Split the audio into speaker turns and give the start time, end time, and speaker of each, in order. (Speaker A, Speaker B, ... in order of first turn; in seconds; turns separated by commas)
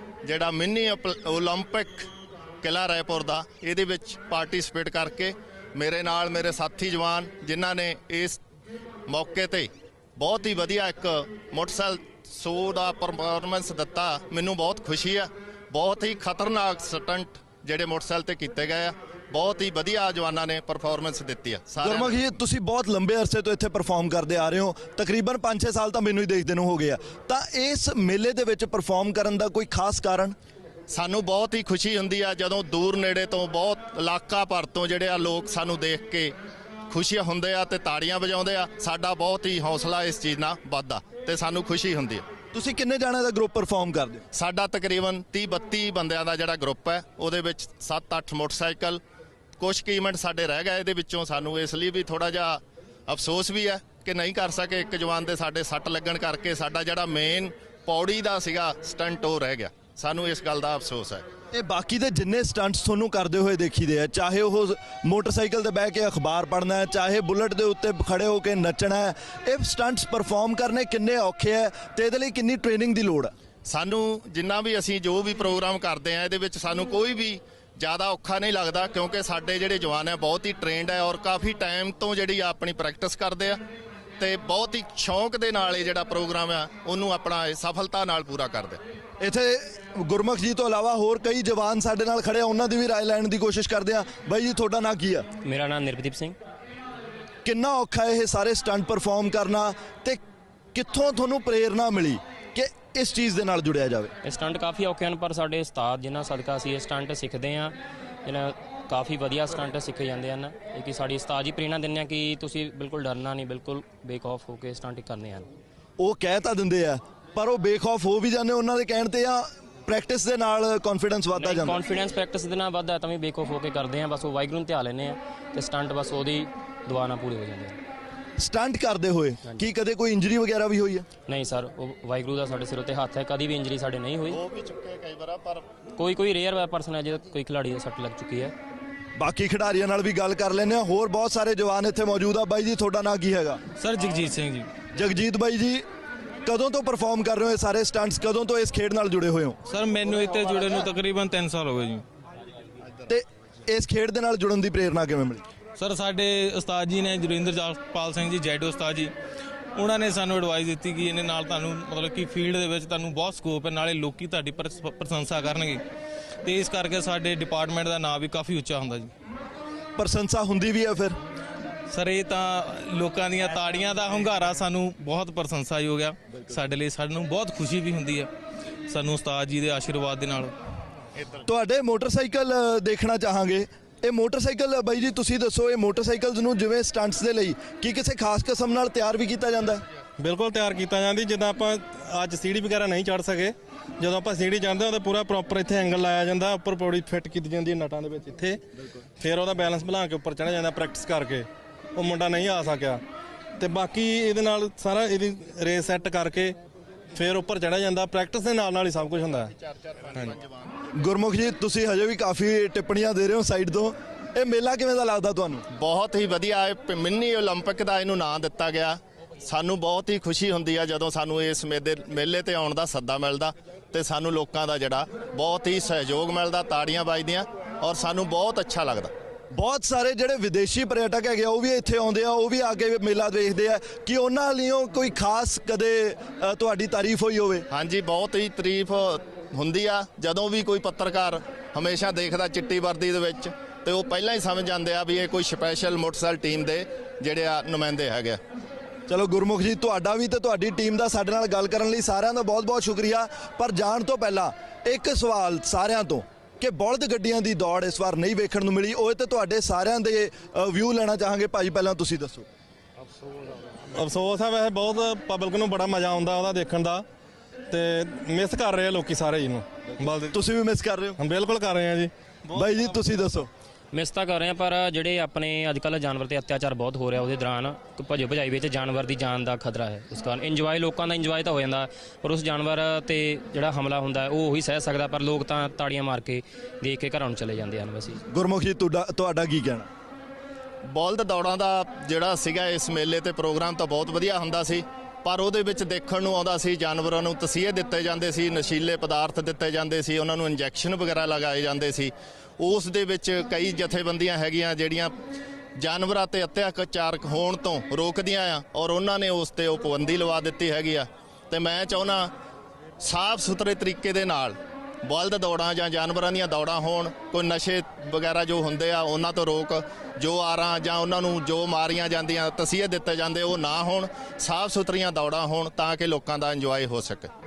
Speaker A: 0.2-2.1, Speaker A: 2.6-8.4, Speaker A: 9.1-22.2, Speaker B: 21.8-30.3, Speaker A: 30.9-36.3, Speaker A: 36.9-42.2, Speaker B: 42.5-44.2, Speaker A: 44.3-49.0, Speaker A: 49.6-61.2, Speaker B: 61.5-73.3, Speaker A: 73.7-83.6, Speaker A: 84.2-88.8, Speaker B: 89.2-95.3, Speaker C: 95.4-96.3, Speaker B: 97.4-100.2, Speaker B: 100.7-104.1, Speaker C: 104.2-107.7, Speaker C: 108.2-115.5, Speaker B: 116.0-121.8, Speaker C: 121.3-127.8, Speaker B: 128.4-131.1, Speaker C: 131.3-134.4, Speaker A: 134.3-135.7, Speaker C: 136.0-138.5, Speaker B: 139.2-143.6, Speaker D: 143.8-144.7, Speaker B: 144.9-145.8, Speaker B: 146.4-149.6, Speaker D: 149.7-152.0, Speaker B: 153.1-155.4, Speaker D: 155.8-159.1, Speaker D: 159.7-165.8, Speaker D: 166.4-169.1, Speaker B: 170.0-171.2, Speaker D: 171.9-178.3, Speaker D: 178.9-180.5, Speaker B: 181.4-189.8, Speaker E: 190.2-198.6, Speaker E: 199.2-203.0, Speaker E: 203.6-206.6, Speaker E: 207.1-209.5, Speaker A: 209.7-210.7, Speaker B: 210.9-215.6, Speaker A: 215.7-229.1, Speaker B: 229.5-237.7, Speaker A: 237.7-248.4, Speaker B: 249.1-262.4, Speaker E: 263.9-267.0, Speaker E: 267.7-270.4, Speaker B: 270.3-271.2, Speaker E: 271.2-272.6, Speaker B: 272.5-273.5, Speaker C: 273.9-288.2, Speaker B: 288.3-289.9, Speaker A: 290.9-305.1, Speaker A: 305.8-312.3, Speaker A: 313.0-327.3